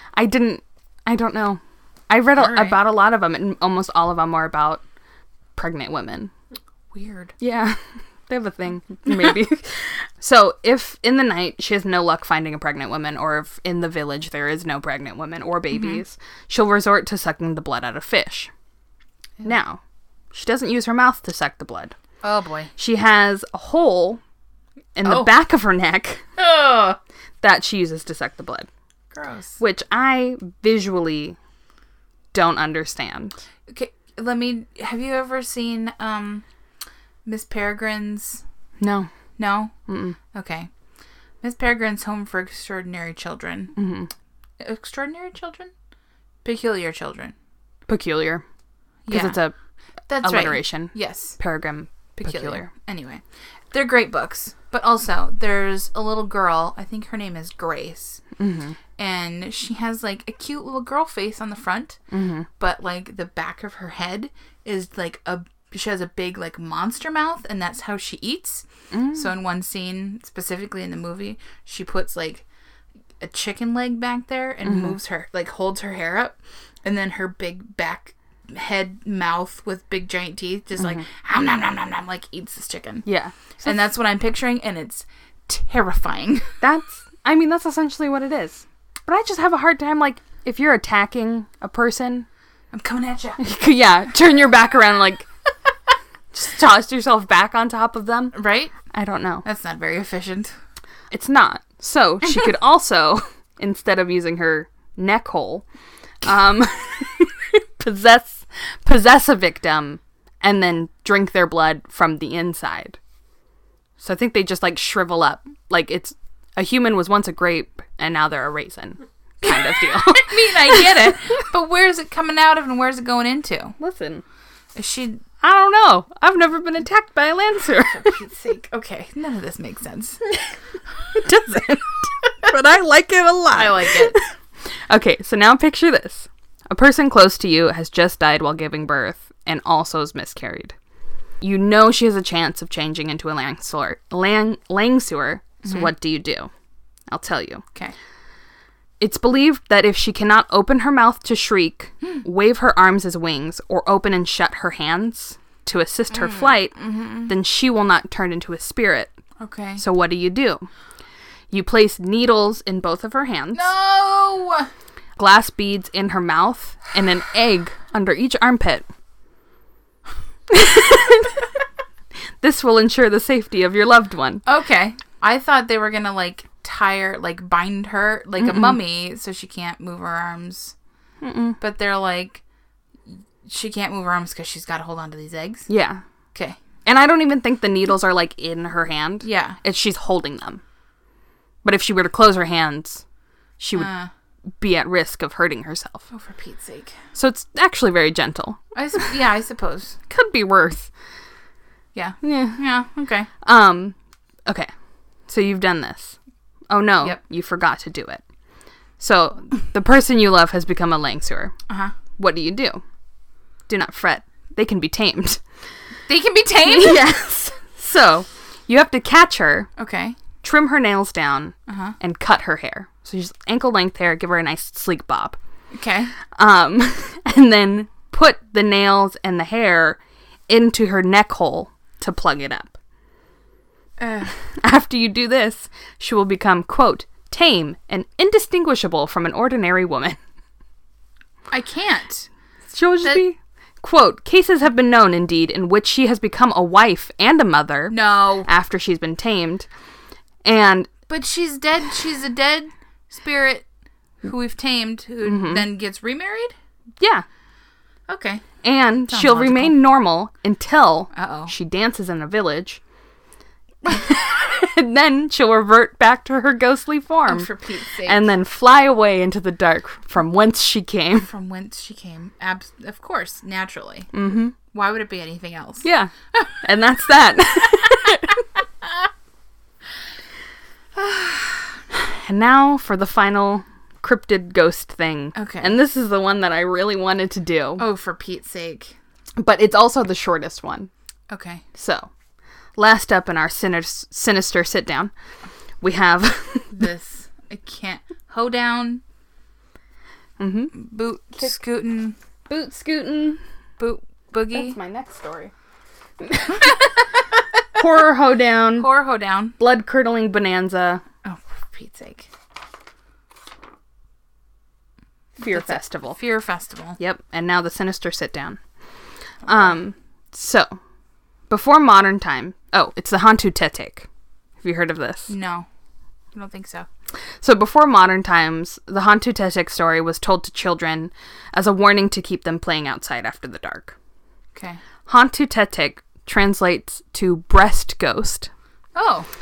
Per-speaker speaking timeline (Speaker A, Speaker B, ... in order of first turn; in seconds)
Speaker A: 0.1-4.8, 5.6-6.3, 7.4-18.5, 19.4-19.8, 20.3-21.9, 22.8-24.2, 25.0-26.3, 27.4-28.7, 29.6-31.4, 32.3-33.4, 38.8-39.1, 39.9-40.2, 43.8-44.1, 47.9-48.4, 49.1-49.5, 50.2-52.7, 58.4-58.8, 62.1-62.5, 68.9-69.2, 74.7-75.0, 83.1-83.7, 86.6-92.3, 93.4-95.3, 96.3-99.5, 101.1-105.7, 106.2-113.0, 114.0-120.9, 123.8-124.2, 125.4-128.2, 131.2-131.8, 132.4-134.2, 134.9-140.7, 141.4-146.5, 147.1-147.6, 149.0-159.1, 159.8-160.7, 161.5-163.7, 165.2-168.9, 170.5-171.4, 172.4-174.4, 178.4-178.8, 181.2-181.6, 185.7-186.0, 186.8-190.6, 191.6-193.0, 193.6-193.9, 194.6-196.1, 197.1-198.6, 200.1-200.9, 202.2-202.6, 203.4-203.9, 204.5-204.7, 205.3-206.2, 206.7-208.2, 209.0-211.5, 212.2-212.8, 213.7-215.4, 216.6-219.7, 220.4-225.4, 226.3-232.8, 234.6-240.2, 242.7-249.7, 250.4-250.9, 255.2-255.7, 257.0-257.2, 258.6-262.8, 263.9-267.5, 268.0-271.3, 274.1-274.6, 275.8-278.4, 281.9-287.8, 289.4-290.9, 291.8-292.1, 292.8-295.1, 295.8-296.8, 300.4-300.8, 302.5-303.4, 304.5-305.5, 306.2-306.9, 307.7-308.9, 309.6-311.0, 315.4-316.2, 317.0-318.6, 319.5-320.8, 321.5-324.1, 324.6-325.3, 327.4-333.9, 335.1-338.5
Speaker B: 2.4-2.8, 6.9-7.3, 15.7-16.0, 22.2-22.7, 25.0-25.3, 26.4-27.0, 29.1-29.6, 33.7-36.4, 37.2-38.4, 39.4-39.7, 40.3-40.7, 41.4-43.7, 44.6-45.7, 46.4-47.3, 49.1-49.4, 50.1-51.4, 52.2-58.2, 59.0-62.0, 62.6-72.4, 73.2-83.1, 83.6-86.5, 92.7-93.4, 98.3-98.7, 99.5-100.5, 119.5-123.8, 124.8-125.2, 127.9-130.2, 133.5-134.2, 145.6-145.9, 156.1-157.3, 159.4-159.8, 163.5-164.7, 174.5-180.8, 181.6-182.4, 183.1-185.7, 186.3-186.6, 189.2-189.6, 193.8-194.1, 196.1-197.0, 198.8-200.0, 201.9-203.3, 211.7-211.9, 216.1-217.1, 219.8-220.2, 221.7-222.0, 225.7-226.1, 234.0-234.3, 241.5-242.3, 247.9-248.5, 251.1-253.6, 254.2-256.5, 258.1-259.8, 261.1-261.5, 267.3-268.3, 271.2-275.9, 285.4-285.7, 287.8-289.0, 291.3-291.6, 296.7-299.0, 300.7-302.2, 303.8-304.8, 308.8-309.6, 311.2-312.3, 315.4-317.0, 325.3-325.7, 326.3-326.9, 334.5-334.8, 338.9-339.3